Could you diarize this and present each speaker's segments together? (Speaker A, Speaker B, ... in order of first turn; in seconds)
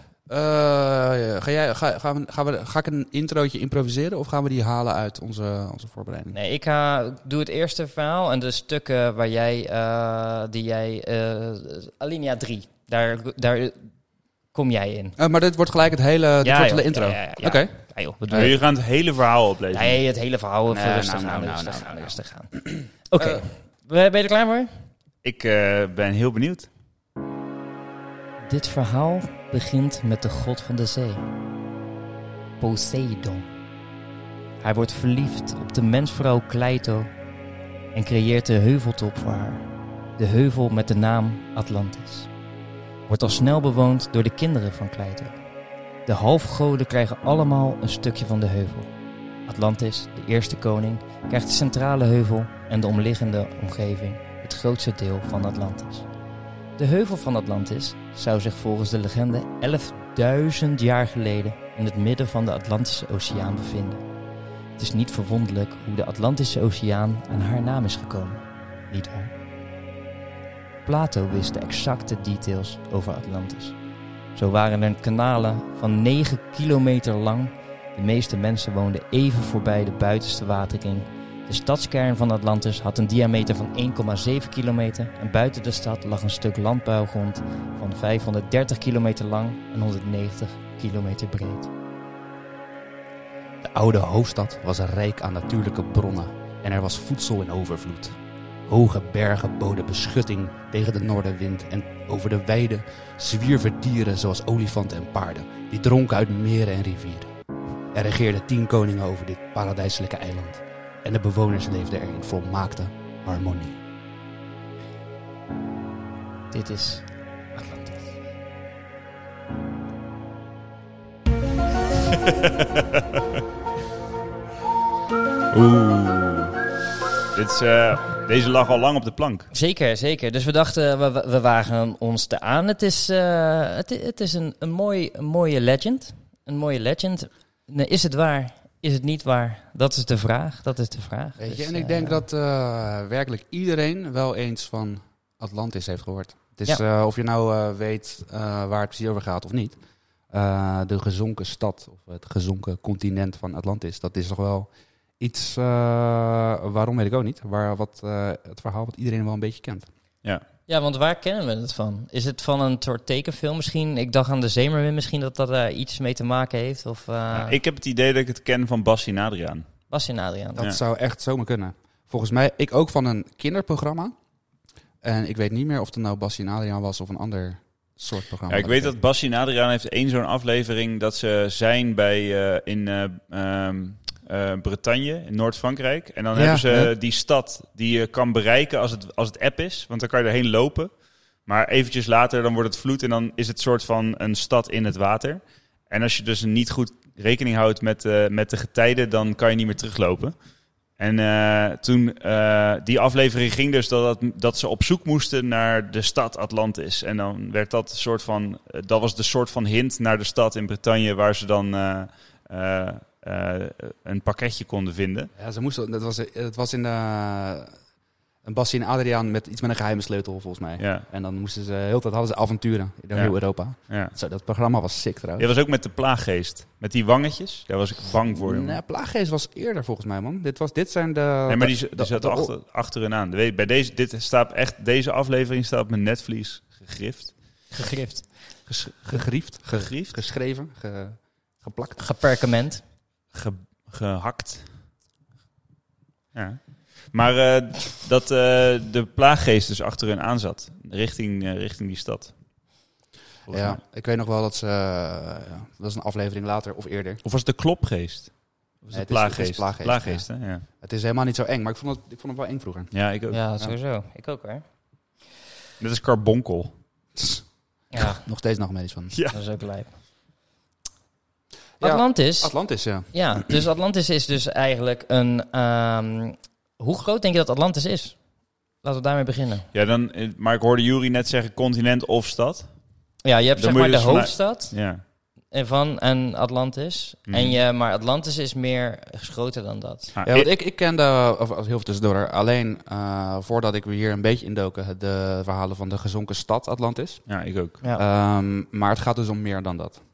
Speaker A: 0.3-6.3, 15.2-17.7, 20.7-23.4, 93.6-107.3, 107.9-113.8, 141.4-149.8, 150.3-154.7, 155.2-159.9, 170.6-174.1, 175.0-178.9, 186.3-186.9, 215.4-217.8, 218.4-225.5, 228.3-232.5, 238.7-242.0, 253.5-257.2, 258.9-262.9, 267.1-267.4, 267.9-269.1, 271.8-273.6, 290.3-297.3, 297.9-300.0
Speaker B: 6.3-13.9, 14.5-15.2, 16.4-18.6, 19.7-24.7, 28.4-31.2, 32.6-33.5, 34.6-37.1, 37.9-42.3, 43.1-45.4, 46.1-48.9, 49.5-56.1, 56.8-64.0, 64.8-69.3, 70.8-73.8, 74.3-91.7, 116.5-118.1, 129.5-142.2, 160.7-167.6, 169.9-170.6, 237.7-238.3, 242.0-242.8, 263.3-264.6, 267.9-268.2, 269.3-269.9, 271.8-272.5, 273.1-278.2, 278.8-279.7, 283.2-284.8, 285.5-290.1
Speaker C: 18.3-20.0, 25.2-26.7, 125.5-126.6, 127.3-129.5, 167.3-169.7, 178.5-190.9, 191.4-200.3, 201.0-215.3, 220.8-221.1, 223.9-224.1, 225.4-228.8, 231.5-237.3, 239.7-240.2, 243.3-244.7, 246.3-252.3, 253.5-253.8, 257.2-260.6, 262.9-263.4, 265.8-266.7, 269.1-269.4, 279.7-282.7, 283.6-285.0, 287.3-287.6, 290.1-290.5, 297.3-297.8